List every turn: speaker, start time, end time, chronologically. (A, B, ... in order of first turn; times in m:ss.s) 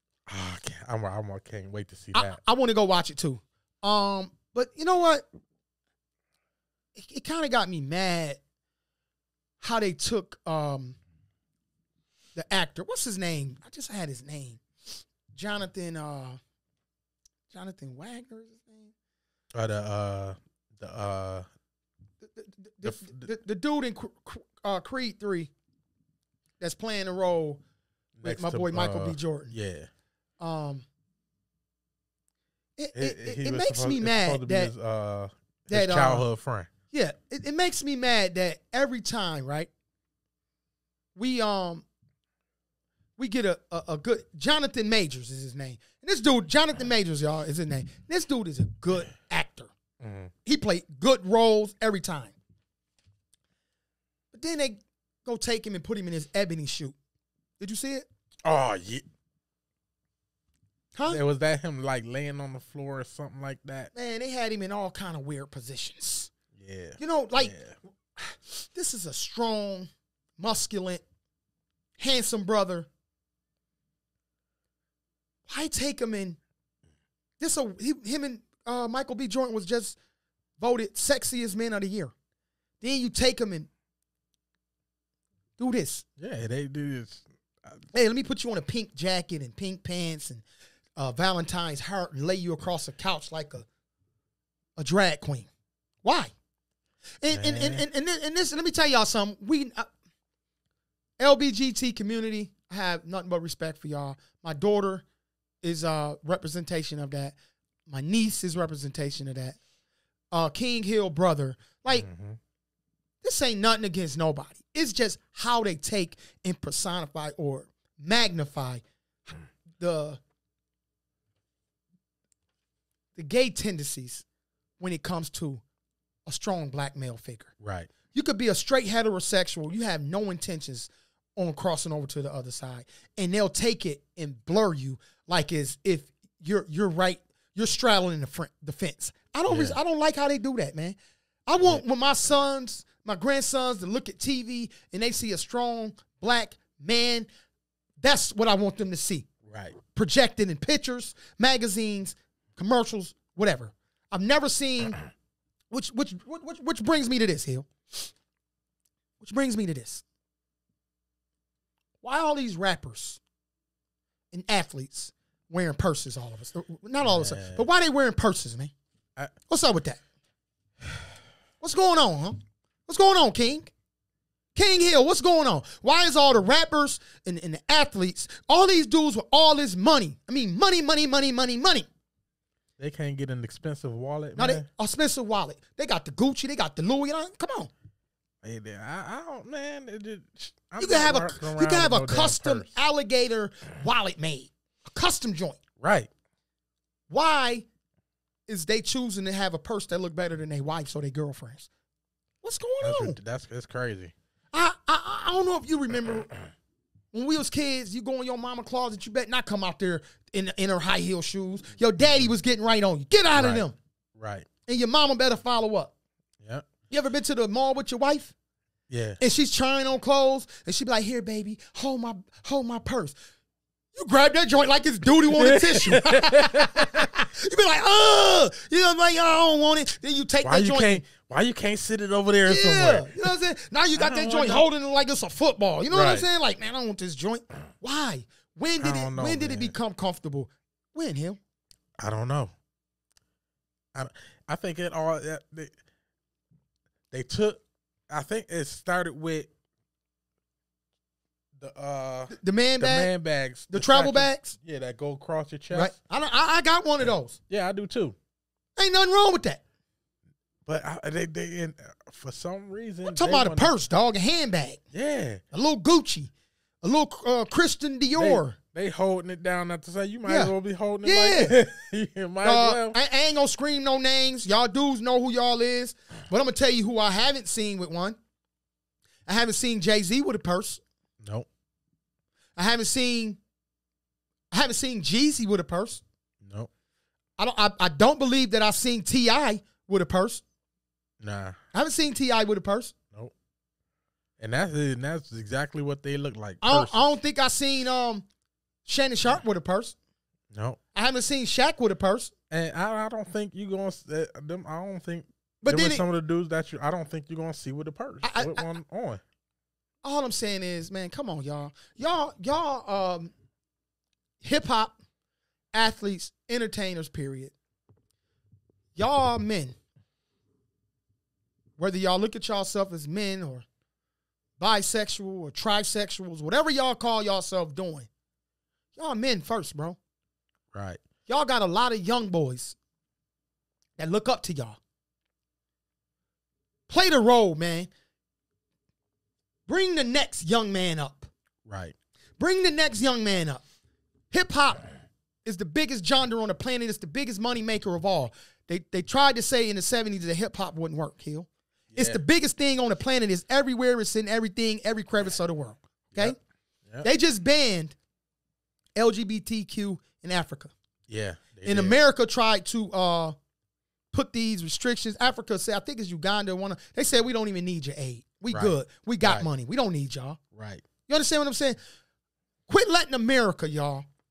0:00.3-0:02.4 A
0:02.1-0:05.3 B
0:06.9-0:08.4 B
0:09.6-0:11.0 B
0:12.3-0:14.6 B
0:15.3-0:16.4 B
0:17.5-0:18.9 B
0:19.5-0:21.4 A
0:22.2-0:25.5 B
0:22.8-0:23.3 A
0:26.6-0:27.6 B
0:28.2-0:29.9 A
0:28.2-0:29.5 B
0:30.4-0:30.8 B
0:32.8-0:34.7 B
0:32.9-0:36.7 A
0:35.7-0:36.2 B
0:36.9-0:39.7 B
0:41.1-0:41.8 B
0:43.2-0:49.7 B
0:50.0-0:50.3 A
0:50.4-0:52.4 B
0:54.3-0:57.0 B
0:57.6-0:58.1 B
0:58.4-0:59.0 A
1:00.9-1:01.2 B
1:01.1-1:03.9 A
1:03.9-1:06.3 B
1:06.5-1:07.7 A
1:07.0-1:07.5 B
1:08.2-1:11.0 B
1:12.0-1:12.9 B
1:15.5-1:16.4 B
1:17.4-1:20.0 B
1:20.6-1:22.1 B
1:22.8-1:23.7 B
1:25.6-1:26.0 B
1:26.2-1:27.9 A
1:27.9-1:30.4 B
1:31.0-1:33.6 B
1:34.8-1:35.5 B
1:36.0-1:36.3 B
1:37.2-1:39.9 B
1:37.3-1:37.8 A
1:41.2-1:45.0 B
1:45.6-1:47.4 B
1:47.9-1:49.6 B
1:50.3-1:52.1 B
1:51.9-1:52.4 A
1:53.2-2:00.2 B
2:03.2-2:04.2 B
2:04.8-2:05.6 B
2:06.2-2:07.5 B
2:07.6-2:07.9 A
2:08.1-2:27.3 B
2:19.5-2:19.8 A
2:28.0-2:29.3 B
2:29.5-2:29.8 A
2:29.9-2:35.0 B
2:35.7-2:38.1 B
2:39.2-2:40.0 B
2:42.0-2:43.2 B
2:44.3-2:48.7 B
2:47.0-2:47.6 A
2:49.5-2:50.0 B
2:51.6-2:53.7 B
2:54.5-3:01.9 B
3:02.8-3:04.7 A
3:04.4-3:07.7 B
3:08.4-3:12.7 A
3:10.8-3:15.6 B
3:15.8-3:16.1 A
3:17.1-3:17.6 B
3:18.5-3:21.7 B
3:22.4-3:23.1 B
3:22.8-3:24.1 A
3:24.5-3:26.3 B
3:27.1-3:33.8 B
3:33.3-3:34.5 A
3:34.7-3:35.9 B
3:36.4-3:36.7 A
3:36.9-3:38.3 B
3:38.9-3:39.2 A
3:39.2-3:43.2 B
3:43.9-3:51.0 B
3:45.2-3:47.1 A
3:50.4-3:53.3 A
3:52.4-4:01.4 B
3:53.9-3:54.6 A
3:55.9-3:56.3 A
3:58.8-3:59.7 A
4:02.0-4:02.5 A
4:03.9-4:05.7 A
4:07.1-4:09.5 A
4:11.6-4:15.9 A
4:12.3-4:13.1 B
4:13.7-4:14.6 B
4:15.7-4:17.4 B
4:17.0-4:18.2 A
4:18.8-4:19.6 B
4:20.6-4:23.7 A
4:23.0-4:24.8 B
4:24.9-4:25.4 A
4:25.5-4:26.3 B
4:26.8-4:28.6 B
4:28.2-4:33.0 A
4:30.2-4:30.5 B
4:31.0-4:31.6 B
4:32.4-4:38.2 B
4:39.2-4:40.8 B
4:41.2-4:41.5 A
4:42.6-4:43.4 B
4:44.5-4:46.0 B
4:46.4-4:46.7 A
4:47.4-4:50.4 B
4:51.2-4:51.6 A
4:51.7-4:52.9 B
4:54.4-4:57.0 A
4:56.6-4:58.2 B
4:58.8-5:00.0 B
5:00.5-5:00.8 A
5:00.9-5:02.3 B
5:02.5-5:09.2 A
5:05.6-5:06.0 B
5:08.2-5:08.7 B
5:10.0-5:13.3 B
5:14.4-5:15.0 B
5:15.7-5:17.5 B
5:19.0-5:19.8 B
5:21.8-5:23.6 B
5:24.6-5:28.1 B
5:29.0-5:30.0 B
5:30.7-5:31.0 A
5:31.3-5:32.8 B
5:34.0-5:34.8 B
5:36.9-5:37.9 B
5:39.7-5:41.3 B
5:41.7-5:41.9 A
5:42.4-5:43.6 B
5:44.3-5:44.9 B
5:45.4-5:56.4 B
5:51.9-5:52.2 A
5:57.0-5:58.0 B
5:59.0-6:00.7 B
6:01.1-6:02.0 A
6:01.6-6:03.4 B
6:04.1-6:10.4 B
6:08.5-6:09.5 A
6:10.5-6:10.8 A
6:11.1-6:11.8 B
6:12.7-6:14.0 B